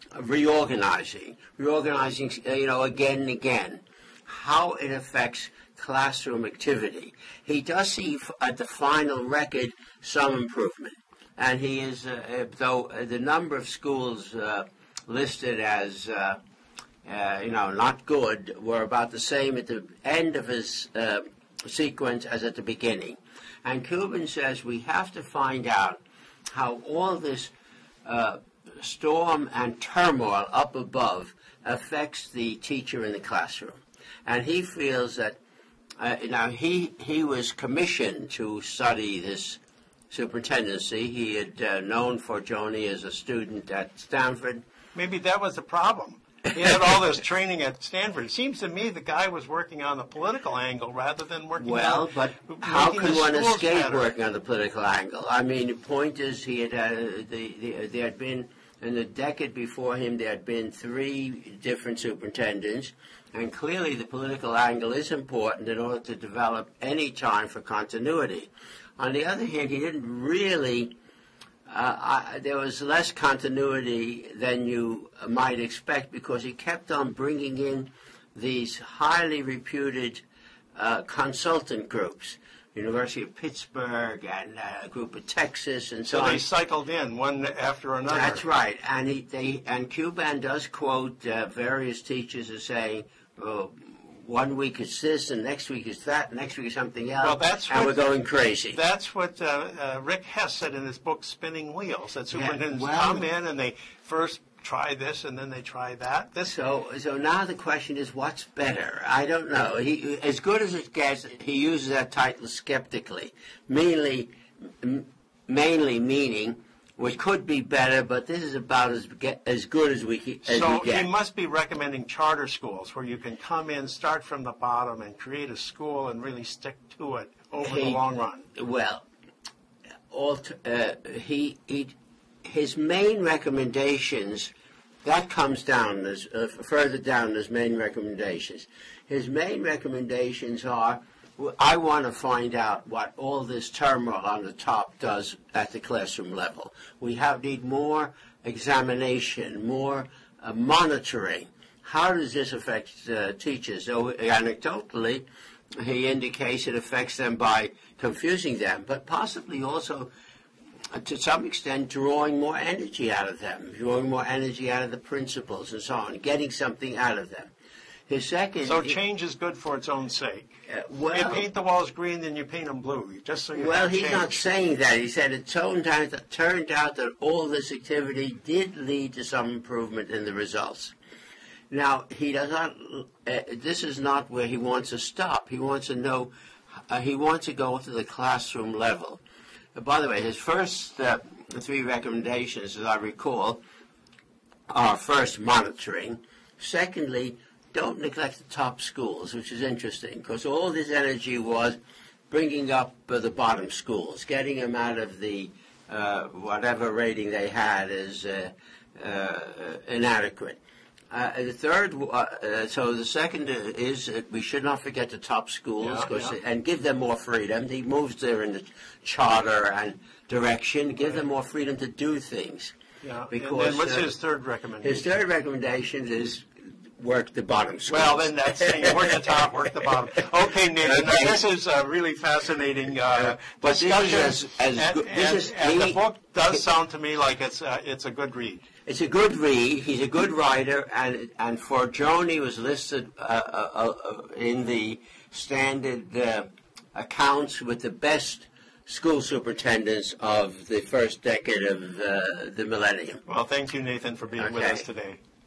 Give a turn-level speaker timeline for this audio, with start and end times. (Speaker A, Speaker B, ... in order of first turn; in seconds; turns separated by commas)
Speaker A: 0.1-16.4, Speaker A: 17.1-27.5, Speaker A: 28.1-35.4, Speaker A: 36.0-44.6, Speaker B: 45.0-54.1, Speaker A: 51.6-70.9, Speaker A: 71.7-80.2, Speaker A: 80.8-86.4, Speaker B: 86.1-88.4, Speaker A: 88.1-98.8, Speaker B: 97.2-98.1, Speaker B: 98.7-106.5, Speaker A: 102.3-103.3, Speaker A: 106.4-121.1, Speaker B: 120.4-128.5, Speaker A: 127.6-128.0, Speaker A: 128.6-129.1, Speaker A: 130.1-131.9, Speaker A: 132.4-134.5, Speaker A: 135.0-155.2, Speaker A: 155.8-160.1, Speaker A: 160.9-167.5, Speaker A: 168.1-169.0, Speaker B: 168.6-170.5, Speaker A: 170.7-171.4, Speaker B: 171.1-174.4, Speaker A: 173.6-180.9, Speaker A: 181.7-186.3, Speaker A: 186.9-189.2, Speaker A: 189.8-193.6, Speaker A: 194.7-201.8, Speaker A: 202.3-210.6, Speaker A: 211.1-222.7, Speaker B: 215.8-216.3, Speaker B: 223.0-225.2, Speaker A: 223.3-224.1, Speaker A: 224.8-229.4, Speaker B: 227.9-238.7, Speaker A: 230.8-231.4, Speaker A: 233.2-236.1, Speaker A: 238.9-253.2, Speaker B: 253.3-255.2, Speaker A: 254.4-254.9